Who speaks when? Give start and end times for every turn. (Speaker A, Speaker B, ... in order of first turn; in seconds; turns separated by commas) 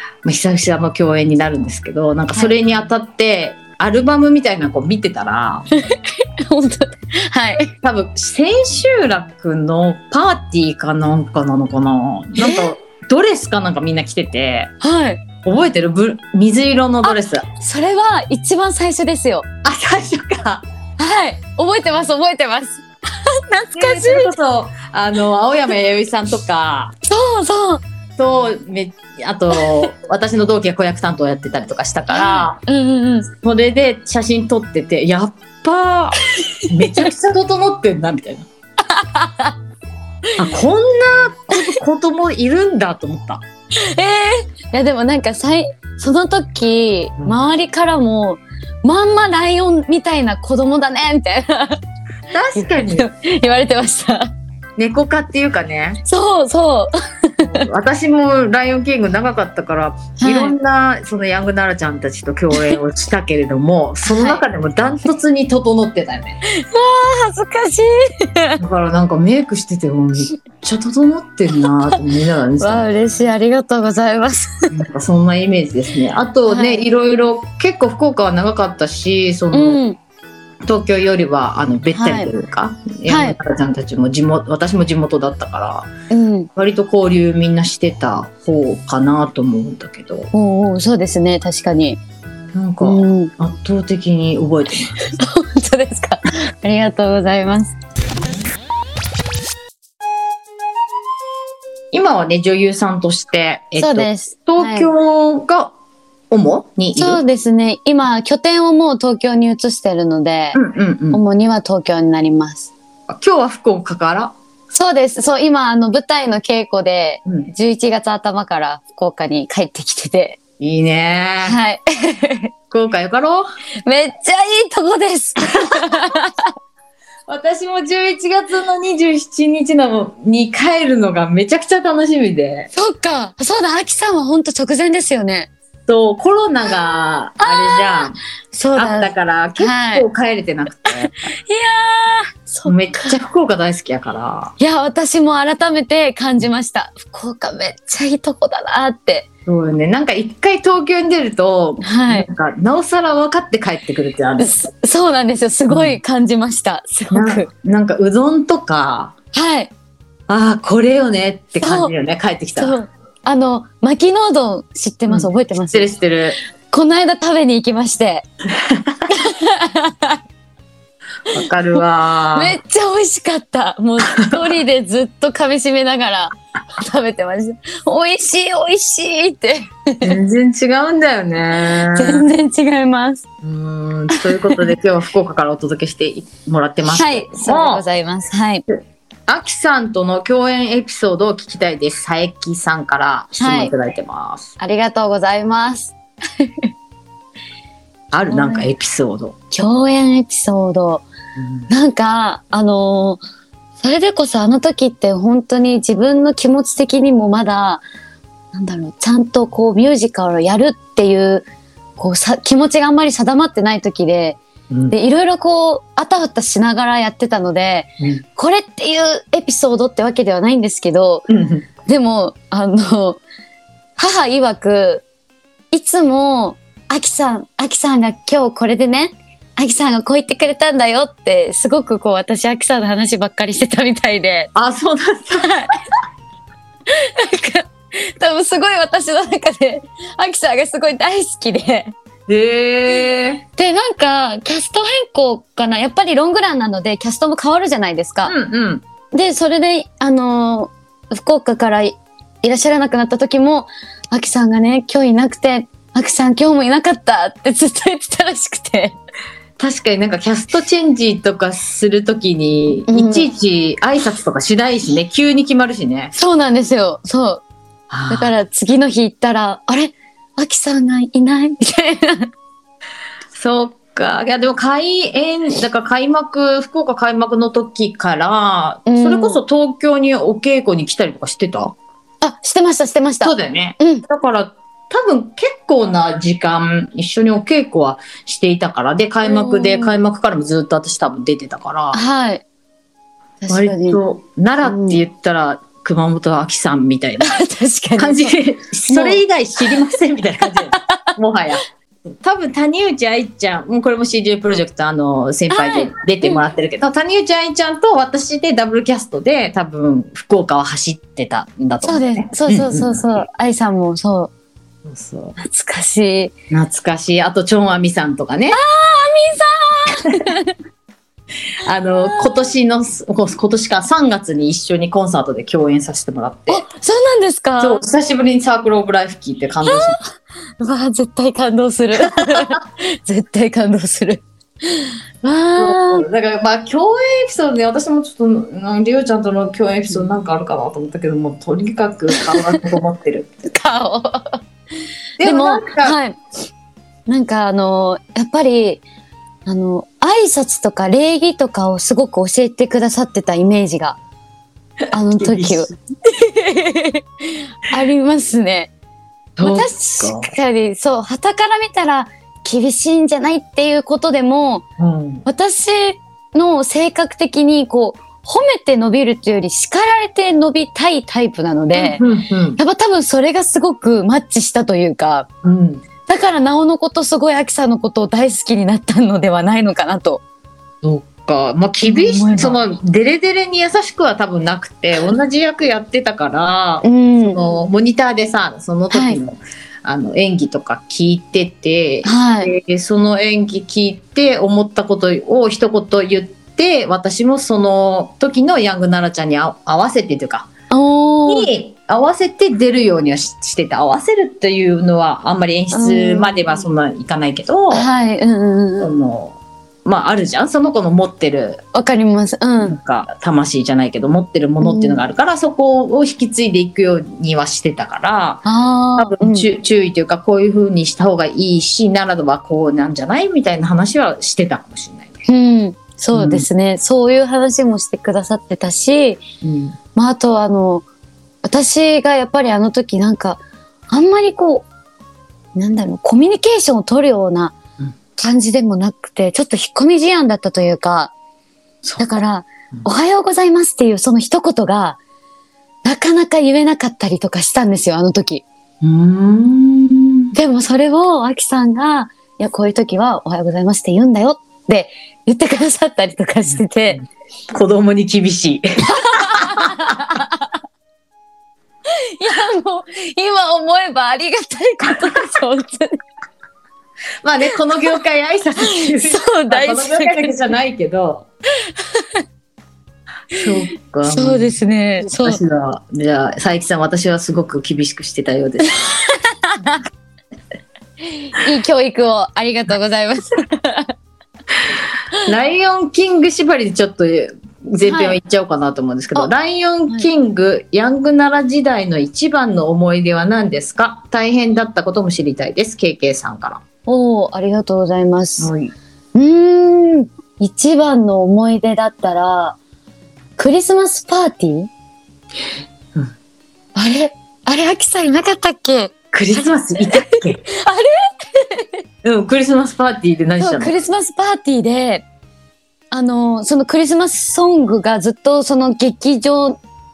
Speaker A: 0.2-5.6, Speaker B: 5.8-7.7, Speaker A: 7.8-14.7, Speaker B: 12.4-12.8, Speaker B: 14.8-15.2, Speaker A: 15.4-17.4, Speaker B: 17.0-19.4, Speaker A: 19.6-20.6, Speaker B: 21.0-24.4, Speaker A: 23.7-26.9, Speaker B: 27.0-27.8, Speaker A: 28.2-32.6, Speaker B: 29.6-29.9, Speaker B: 32.1-33.3, Speaker A: 33.4-38.5, Speaker B: 36.4-37.1, Speaker B: 38.9-39.5, Speaker A: 40.4-43.4, Speaker B: 43.8-51.8, Speaker A: 52.3-53.1, Speaker B: 52.5-54.3, Speaker A: 54.8-56.0, Speaker B: 56.0-57.6, Speaker A: 57.4-66.4, Speaker B: 60.2-60.5, Speaker B: 64.0-64.4, Speaker B: 66.5-68.6, Speaker A: 68.6-72.8, Speaker B: 71.6-72.0, Speaker B: 72.6-74.6, Speaker A: 74.7-79.8, Speaker B: 76.5-76.8, Speaker B: 79.5-80.0, Speaker A: 80.6-85.9, Speaker B: 81.9-82.3, Speaker B: 83.1-83.3, Speaker B: 86.1-86.5, Speaker A: 86.5-90.3, Speaker B: 90.3-92.0, Speaker A: 92.5-95.0, Speaker B: 92.8-93.3, Speaker B: 95.0-97.8, Speaker A: 101.9-105.7, Speaker B: 103.8-104.9, Speaker A: 106.3-107.2, Speaker B: 107.0-110.6, Speaker A: 110.5-111.2, Speaker B: 111.1-112.7, Speaker A: 113.1-114.3, Speaker B: 114.7-120.4, Speaker A: 120.6-121.6, Speaker B: 121.4-122.5, Speaker A: 122.7-123.5, Speaker B: 123.9-126.5, Speaker A: 125.5-126.1, Speaker A: 127.3-132.7, Speaker B: 132.7-135.5, Speaker A: 135.9-138.2, Speaker B: 137.4-140.1, Speaker A: 138.8-141.1, Speaker B: 140.9-143.2, Speaker A: 142.7-144.5, Speaker B: 144.6-149.3, Speaker A: 149.4-154.6, Speaker B: 151.8-152.3, Speaker B: 154.4-157.5, Speaker A: 155.7-156.0, Speaker A: 157.1-159.1, Speaker B: 159.3-159.7, Speaker A: 160.3-162.8, Speaker B: 161.6-161.9, Speaker B: 162.6-165.9, Speaker A: 165.1-166.4, Speaker B: 166.7-168.2, Speaker A: 168.7-169.1, Speaker B: 169.1-170.2, Speaker A: 171.3-172.6, Speaker B: 172.3-180.1, Speaker A: 180.0-182.3, Speaker B: 181.7-183.2, Speaker A: 183.4-187.8, Speaker B: 184.1-184.4, Speaker B: 186.8-188.6, Speaker A: 189.3-194.5, Speaker B: 193.4-193.7, Speaker B: 194.6-196.6, Speaker A: 198.1-199.3, Speaker B: 198.3-198.7, Speaker B: 199.5-201.1, Speaker A: 201.4-201.7, Speaker B: 201.7-203.2, Speaker B: 203.8-207.8, Speaker B: 208.5-211.4, Speaker B: 212.0-214.4, Speaker A: 214.7-214.9, Speaker B: 214.9-221.3, Speaker A: 221.3-221.6, Speaker B: 221.9-223.2, Speaker B: 224.0-225.1, Speaker B: 225.7-234.5, Speaker A: 234.6-235.7, Speaker B: 235.4-235.8, Speaker B: 236.9-241.9, Speaker A: 242.3-243.4, Speaker B: 243.6-248.3, Speaker A: 248.2-248.8, Speaker B: 249.1-259.0, Speaker A: 259.6-266.1, Speaker B: 262.9-263.3, Speaker B: 266.1-267.4, Speaker A: 267.9-268.3, Speaker B: 268.1-272.3, Speaker A: 273.3-281.8, Speaker B: 278.9-279.4, Speaker B: 282.2-284.1, Speaker A: 283.2-292.0, Speaker B: 289.2-290.0, Speaker B: 291.9-292.4, Speaker B: 293.4-294.0, Speaker A: 293.5-297.4, Speaker B: 294.6-295.0, Speaker B: 297.2-298.4, Speaker A: 297.9-301.6, Speaker B: 298.9-299.7, Speaker B: 300.5-301.0, Speaker A: 302.2-313.2, Speaker B: 305.5-306.4, Speaker B: 311.8-314.3, Speaker A: 314.9-315.4, Speaker B: 315.4-316.3, Speaker A: 316.5-318.6, Speaker B: 318.5-320.5, Speaker A: 321.6-326.6, Speaker B: 322.0-322.5, Speaker B: 326.5-327.8, Speaker A: 327.6-330.0, Speaker B: 329.6-330.0, Speaker B: 330.6-336.1, Speaker A: 331.9-332.6, Speaker A: 335.6-343.3, Speaker B: 342.1-342.5, Speaker B: 343.5-344.4, Speaker A: 345.2-346.0, Speaker B: 345.2-346.2, Speaker B: 347.1-348.8, Speaker B: 349.5-354.0, Speaker B: 354.9-358.7, Speaker A: 355.1-355.6, Speaker A: 359.4-360.3, Speaker B: 359.4-364.6, Speaker A: 364.8-365.2, Speaker B: 365.2-372.0, Speaker A: 371.7-372.6, Speaker B: 372.6-375.3, Speaker A: 375.4-375.9, Speaker B: 376.1-380.2, Speaker A: 380.8-400.5, Speaker B: 381.8-382.6, Speaker B: 386.8-387.4, Speaker B: 388.9-389.2, Speaker B: 392.0-392.5, Speaker B: 400.7-401.5, Speaker A: 401.2-407.9, Speaker B: 405.7-406.6, Speaker B: 407.7-408.9, Speaker A: 408.8-411.6, Speaker B: 411.7-412.8, Speaker A: 412.6-418.4, Speaker B: 414.6-415.0, Speaker B: 418.4-419.5, Speaker A: 419.0-425.2, Speaker B: 425.3-429.2, Speaker A: 426.1-426.5, Speaker A: 429.4-429.8, Speaker B: 429.9-430.9, Speaker B: 431.4-434.7, Speaker B: 435.5-437.5, Speaker B: 438.2-441.1, Speaker B: 442.0-445.0, Speaker B: 445.8-448.4, Speaker A: 448.8-450.4, Speaker B: 450.3-457.0, Speaker A: 457.5-459.6, Speaker B: 458.9-460.4, Speaker B: 462.1-466.0, Speaker A: 464.8-465.4, Speaker A: 467.2-471.3, Speaker B: 467.5-468.0, Speaker B: 468.6-470.4, Speaker B: 471.8-472.2, Speaker A: 473.4-478.8, Speaker B: 474.0-475.4, Speaker B: 478.8-479.8, Speaker B: 481.1-483.9, Speaker A: 485.2-496.6, Speaker B: 487.8-488.2, Speaker B: 496.9-498.5, Speaker A: 498.4-498.7, Speaker B: 499.1-502.6, Speaker B: 503.4-504.7, Speaker B: 506.8-511.7, Speaker A: 509.1-510.4, Speaker A: 512.0-513.7, Speaker B: 513.4-515.0, Speaker B: 515.9-519.6